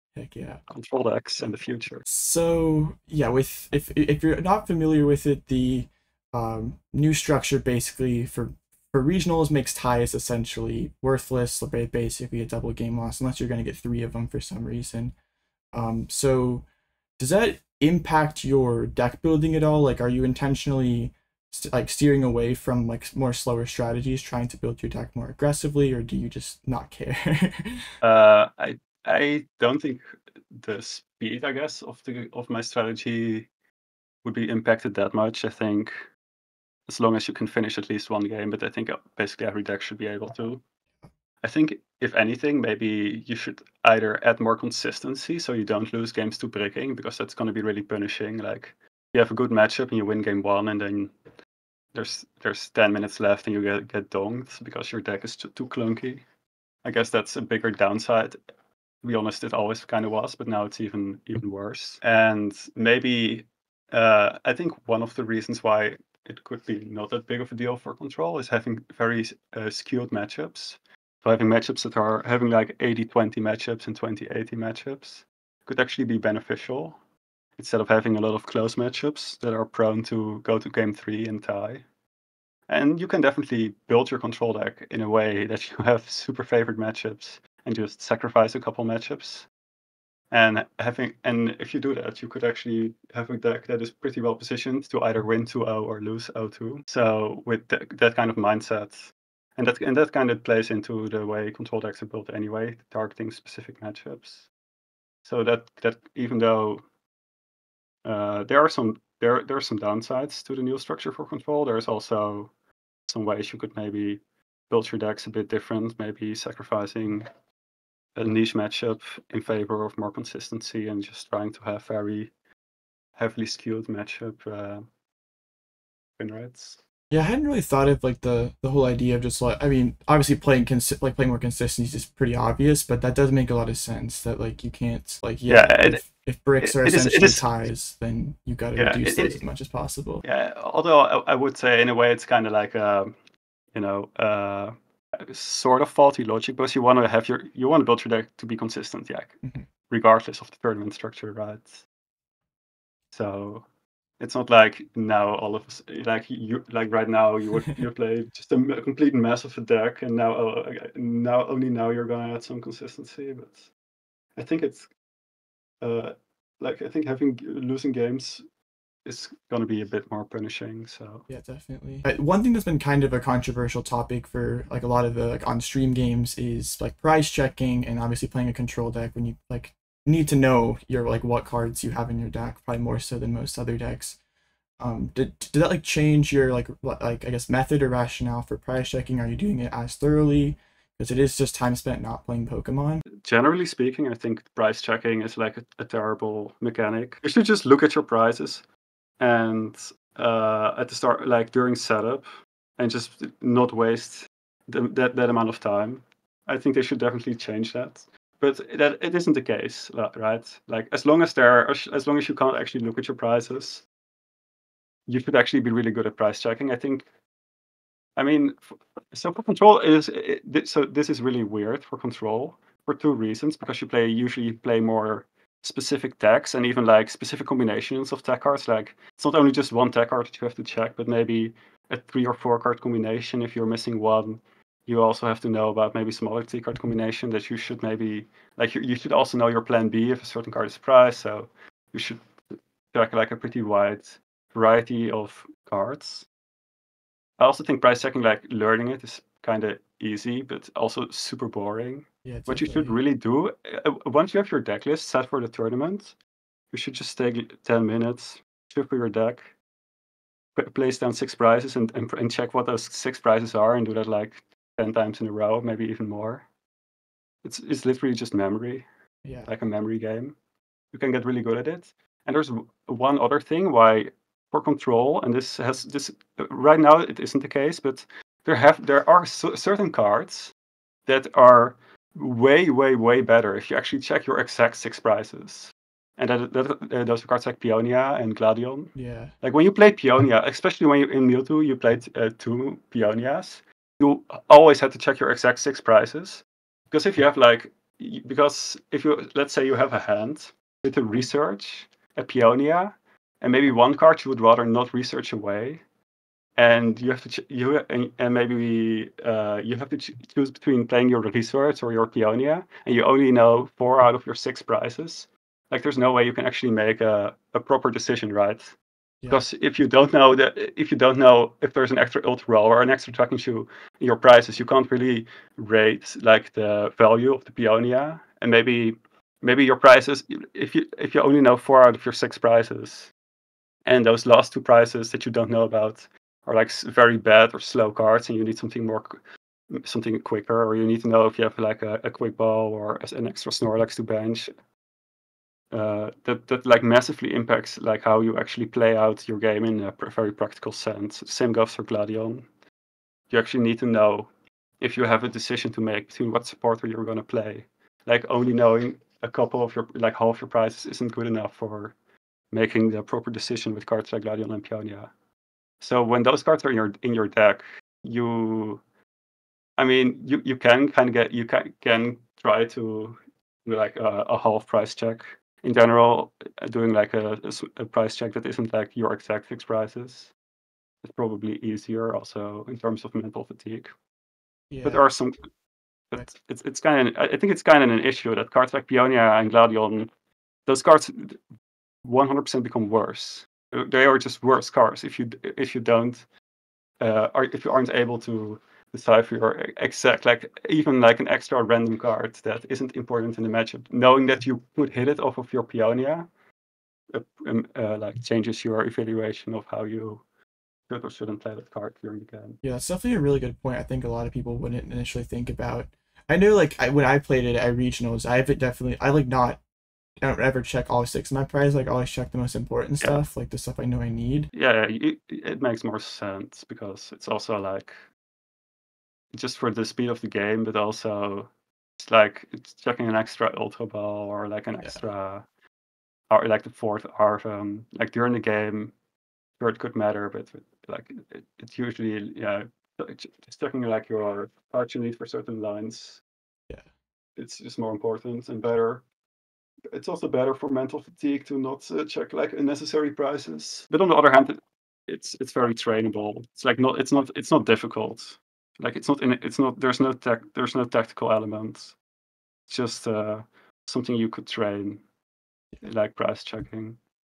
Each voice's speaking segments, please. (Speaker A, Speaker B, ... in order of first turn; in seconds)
Speaker A: 0.1-0.6, 2.1-15.2, 15.7-16.7, 17.2-27.9, 127.1-140.2, 171.3-184.2, 184.8-193.0, 252.2-253.0, 269.2-269.5, 288.9-289.3, 384.7-385.0, 412.6-419.6, 420.2-424.5
Speaker B: 0.7-2.0, 28.0-33.5, 34.2-36.1, 36.9-40.6, 41.4-51.2, 51.9-56.2, 56.9-58.4, 59.0-77.0, 77.6-81.8, 82.7-89.5, 90.3-104.5, 105.2-106.8, 108.0-112.5, 113.1-117.3, 118.2-122.3, 123.2-124.9, 126.2-126.8, 135.5-136.0, 136.6-137.4, 138.8-139.4, 140.2-143.1, 143.7-151.8, 153.1-153.7, 154.2-163.7, 164.4-164.9, 165.8-168.4, 169.1-171.3, 193.2-198.6, 199.2-213.9, 215.1-217.1, 218.2-246.3, 247.4-256.1, 256.7-259.5, 260.6-266.5, 267.4-268.9, 269.5-270.4, 270.9-280.5, 281.1-305.8, 306.6-318.8, 319.3-333.1, 333.9-344.5, 345.7-352.5, 353.3-354.3, 354.8-361.9, 362.5-365.1, 365.8-368.8, 369.8-380.3, 381.0-383.9, 384.8-385.4, 386.1-390.1, 390.7-391.4, 392.0-396.2, 397.0-406.3, 407.1-410.2, 410.9-412.6, 424.5-428.0, 429.3-435.5, 436.3-438.9, 439.6-446.2, 447.4-449.0, 449.9-462.0, 462.7-465.0, 465.8-467.0